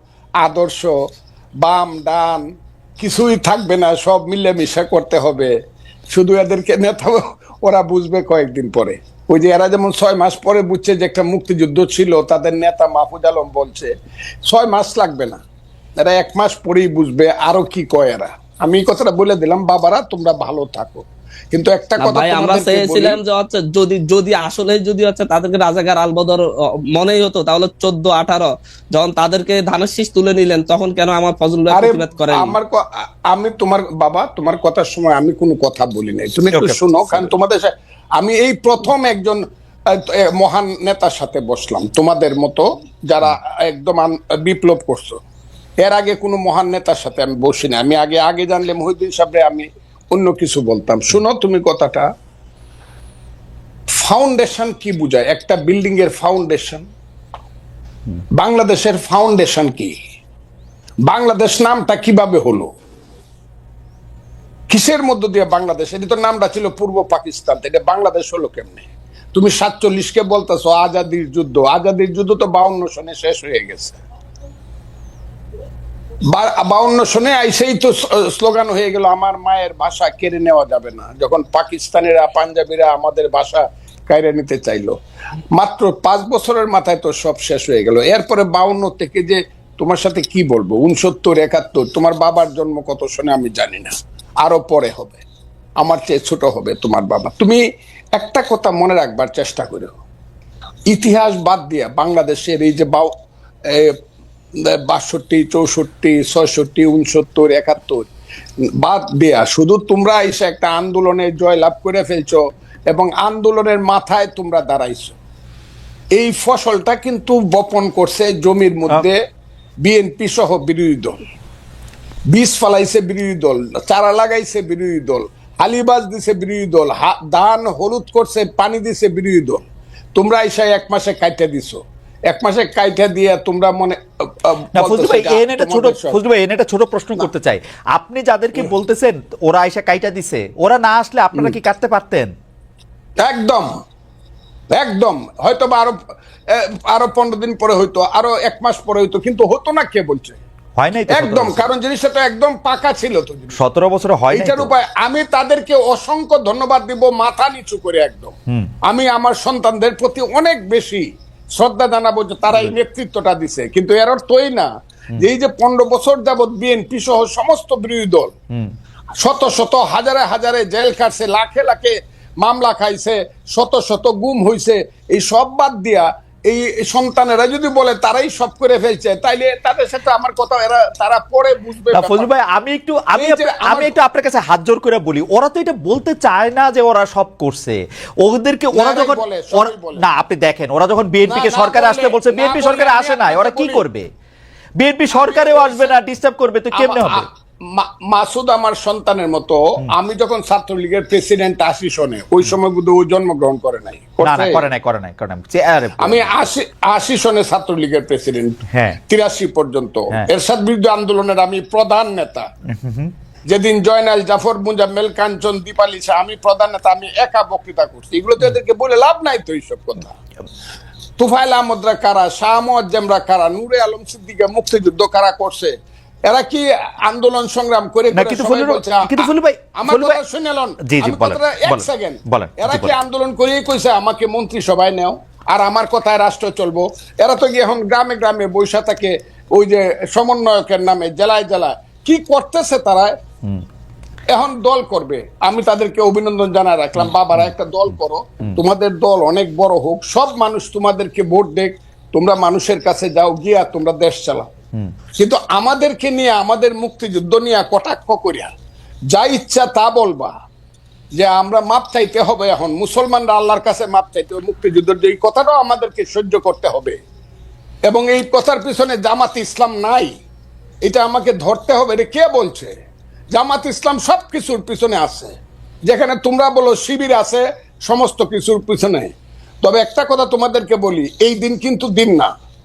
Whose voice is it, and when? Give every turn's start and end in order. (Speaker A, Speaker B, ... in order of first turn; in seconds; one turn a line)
Speaker A: 0.4-0.9
Speaker A: 1.6-2.5
Speaker A: 3.0-5.5
Speaker A: 6.1-13.9
Speaker A: 14.4-15.4
Speaker A: 16.0-23.2
Speaker B: 22.0-32.5
Speaker A: 31.7-39.4
Speaker C: 36.5-37.3
Speaker A: 39.9-45.2
Speaker A: 45.8-52.1
Speaker A: 53.9-56.8
Speaker A: 58.4-59.9
Speaker A: 61.0-62.7
Speaker A: 64.7-74.0
Speaker A: 76.3-85.0
Speaker A: 85.5-95.2
Speaker A: 95.8-97.6
Speaker A: 98.1-100.0
Speaker A: 100.9-103.1
Speaker A: 103.7-104.0
Speaker A: 104.7-108.1
Speaker A: 108.8-115.2
Speaker A: 116.1-119.2
Speaker A: 119.8-121.2
Speaker A: 122.3-129.6
Speaker A: 130.1-136.2
Speaker C: 134.7-142.3
Speaker A: 143.2-143.7
Speaker A: 144.7-145.9
Speaker A: 146.5-150.4
Speaker C: 150.8-151.7
Speaker A: 151.1-153.6
Speaker C: 153.6-154.7
Speaker A: 154.3-158.3
Speaker A: 158.8-161.0
Speaker A: 161.6-168.3
Speaker C: 162.5-162.8
Speaker A: 169.2-182.3
Speaker C: 181.9-194.1
Speaker A: 183.1-183.9
Speaker A: 188.7-190.0
Speaker A: 191.3-193.8
Speaker C: 194.8-197.2
Speaker A: 195.1-195.9
Speaker A: 196.7-204.6
Speaker C: 204.2-206.3
Speaker A: 206.0-212.5
Speaker C: 208.7-209.0
Speaker C: 212.7-213.1
Speaker A: 213.5-220.1
Speaker A: 221.2-225.7
Speaker A: 226.3-243.1
Speaker C: 228.1-230.2
Speaker C: 230.8-232.9
Speaker A: 244.3-254.5
Speaker C: 247.0-247.5
Speaker A: 255.2-258.5
Speaker A: 259.1-260.3
Speaker A: 261.1-267.0
Speaker A: 267.9-270.1
Speaker A: 270.8-272.7
Speaker A: 273.3-275.3
Speaker A: 275.9-282.3